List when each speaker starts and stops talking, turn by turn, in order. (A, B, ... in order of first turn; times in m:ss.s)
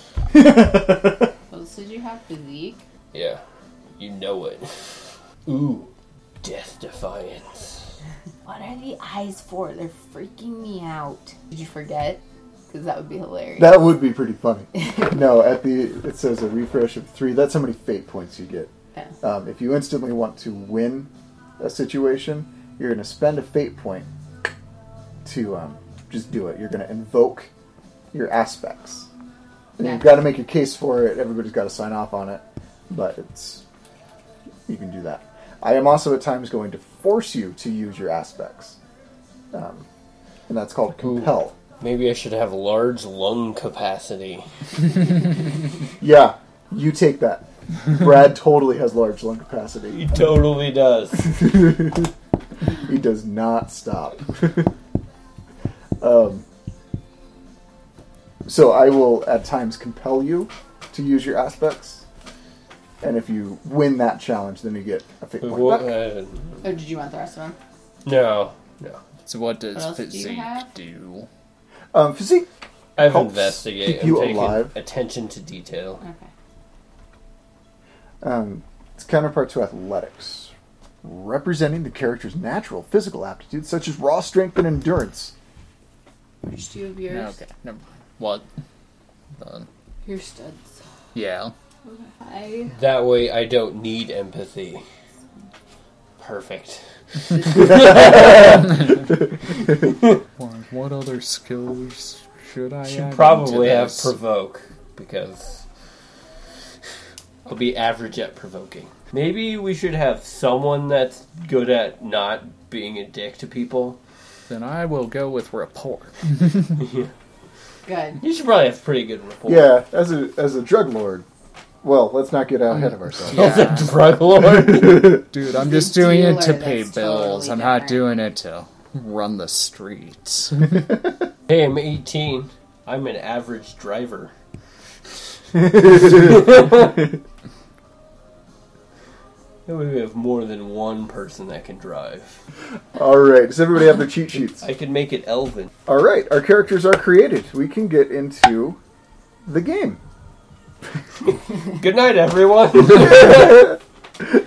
0:00.3-0:01.2 A
0:01.5-0:02.8 B
0:03.1-0:03.4 C
0:04.0-0:04.7 C
0:05.4-0:05.9 C
0:06.4-0:07.9 C
0:08.4-0:13.8 B
0:13.6-0:18.7 A
0:19.2-0:24.1 A
0:25.2-0:27.5 A
0:28.1-0:29.1 A
0:29.8-0:33.6 A
0:29.8-0:30.2 B
0:34.7-0:38.8 A
0:39.5-0:39.8 A
0:40.5-0:41.6 A
0:41.0-0:44.4 C
0:46.0-0:50.2 A
0:49.9-0:51.4 C
0:51.3-0:52.1 A
0:52.8-0:54.7 A
0:56.0-0:56.4 A
0:58.4-1:02.0 A
1:03.0-1:05.9 A
1:05.4-1:06.6 C
1:06.6-1:07.6 B
1:08.0-1:09.0 C
1:09.2-1:11.3 D
1:09.7-1:10.7 B
1:11.9-1:14.7 A
1:13.0-1:16.0 C
1:16.0-1:16.3 B
1:18.2-1:20.5 A
1:21.0-1:25.3 A
1:26.4-1:27.4 B
1:27.1-1:28.4 D
1:29.4-1:29.7 D
1:30.0-1:30.8 B
1:31.1-1:31.5 D
1:31.8-1:32.7 B
1:32.8-1:34.8 C
1:36.2-1:40.2 C
1:38.3-1:39.1 D
1:40.4-1:44.1 D
1:42.9-1:45.6 C
1:47.4-1:54.0 C
1:54.5-1:56.7 D
1:56.8-1:57.1 C
1:57.8-1:58.2 B
1:58.2-1:59.7 C
1:59.4-2:01.2 A
2:01.8-2:03.6 A
2:03.2-2:04.0 D
2:03.3-2:05.2 C
2:04.8-2:10.9 D
2:05.5-2:08.1 B
2:11.5-2:14.3 C
2:15.5-2:16.7 A
2:15.9-2:16.9 C
2:19.6-2:22.4 C
2:22.9-2:24.6 A
2:24.6-2:25.7 C
2:25.8-2:28.8 A
2:29.4-2:30.0 A
2:31.2-2:33.8 C